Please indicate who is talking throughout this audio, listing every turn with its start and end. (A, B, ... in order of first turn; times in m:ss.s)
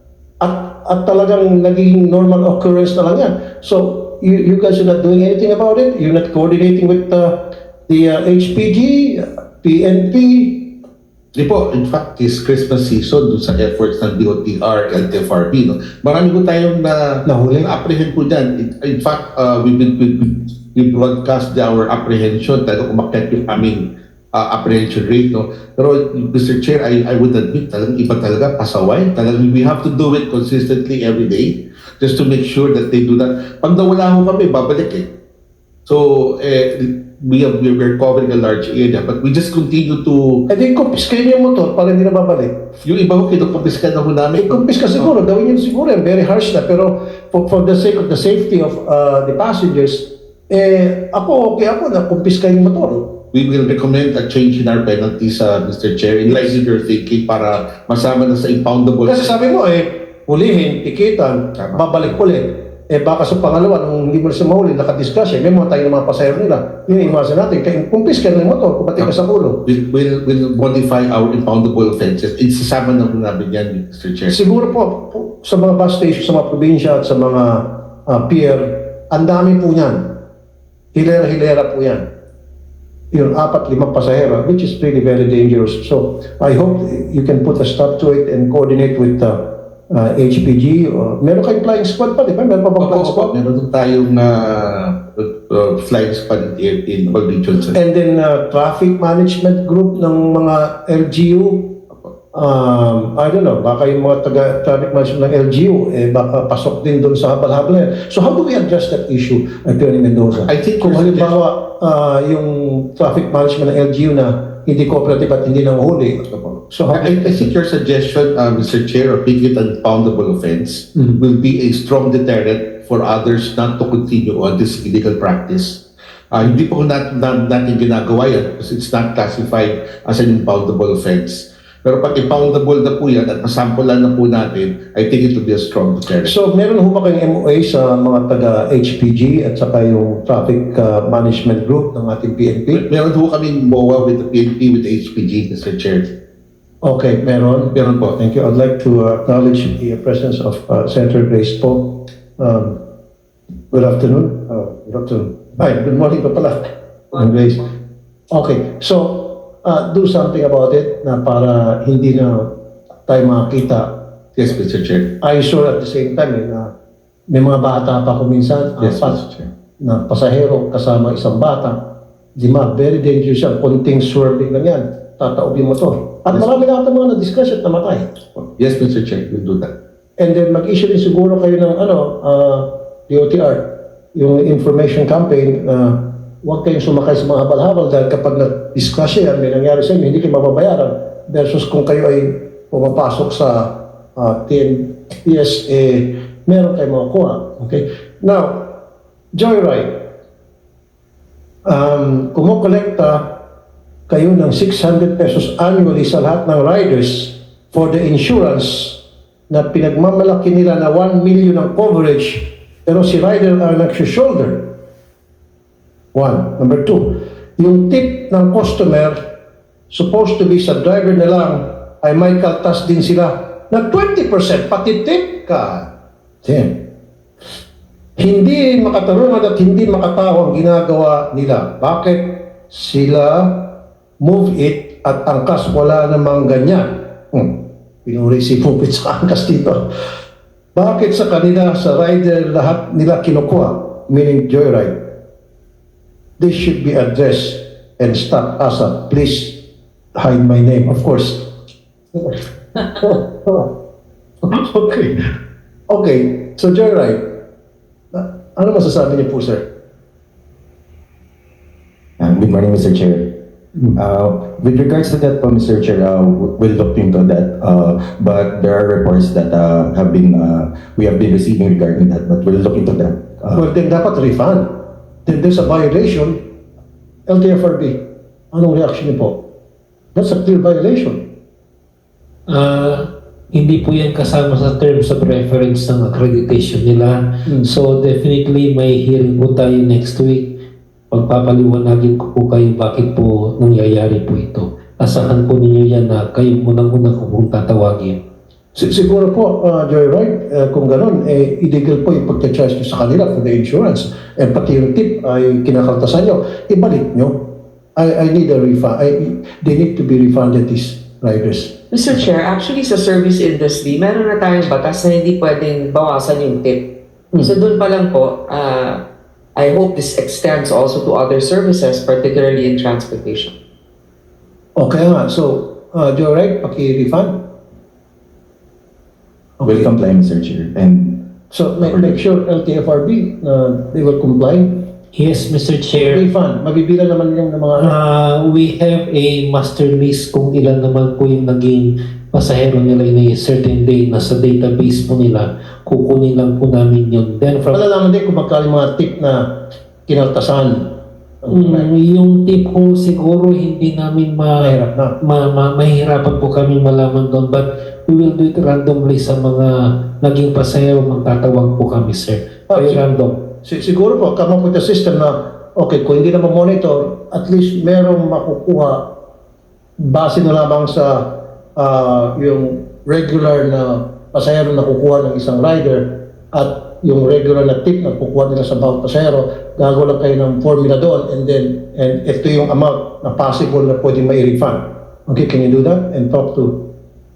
0:00.4-0:10.7 A
0:11.4-0:35.1 B
0:17.3-0:17.7 A
0:35.9-0:40.4 B
0:40.5-0:42.6 A
0:42.8-0:45.1 B
0:44.4-0:53.1 A
0:53.3-0:59.4 B
0:59.1-1:09.6 A
1:01.6-1:01.8 B
1:09.6-1:14.4 B
1:14.3-1:20.2 A
1:20.9-1:22.1 A
1:23.1-1:33.3 A
1:32.8-1:37.8 B
1:37.7-1:41.8 A
1:42.3-1:57.5 A
1:50.3-1:51.4 B
1:56.3-2:16.3 B
2:16.2-2:22.8 A
2:22.7-2:26.1 B
2:26.8-2:32.8 A
2:27.7-2:28.2 B
2:33.7-2:36.6 A
2:37.1-2:37.7 A
2:38.3-2:42.5 A
2:43.1-2:44.0 A
2:44.4-2:45.1 B
2:45.2-2:46.7 A
2:47.3-2:49.2 A
2:48.8-2:49.5 B
2:49.8-2:51.8 A
2:52.4-2:58.1 A
2:58.4-2:59.7 B
3:00.2-3:18.8 A
3:19.3-3:20.1 A
3:21.7-3:23.4 A
3:24.1-3:34.7 A
3:36.1-3:39.2 A
3:39.9-3:45.9 A
3:46.4-3:46.8 A
3:48.2-3:59.8 A
4:00.8-4:05.1 A
4:06.4-4:09.6 A
4:10.2-4:11.5 A
4:12.1-4:13.7 A
4:14.4-4:15.2 A
4:15.9-4:17.4 A
4:18.1-4:19.6 A
4:22.2-4:23.3 C
4:24.0-4:33.6 C
4:33.5-4:36.4 A
4:37.3-4:38.0 A
4:38.5-4:39.4 A
4:40.2-4:41.2 A
4:42.5-4:50.5 D
4:47.5-4:47.7 A
4:51.1-4:58.2 D
4:58.8-5:11.7 A
5:11.9-5:16.9 E
5:17.4-5:19.0 E
5:19.6-5:23.5 E
5:24.8-5:27.4 A
5:29.6-5:29.9 A
5:29.6-5:31.2 C
5:31.5-5:34.8 A
5:35.2-5:36.3 D
5:35.9-5:37.9 A
5:37.8-5:47.8 D
5:47.7-5:49.5 A
5:50.1-5:51.9 A
5:51.5-6:03.5 D
5:54.6-5:55.2 A
6:02.7-6:03.0 A
6:03.6-6:09.1 A
6:10.0-6:26.9 A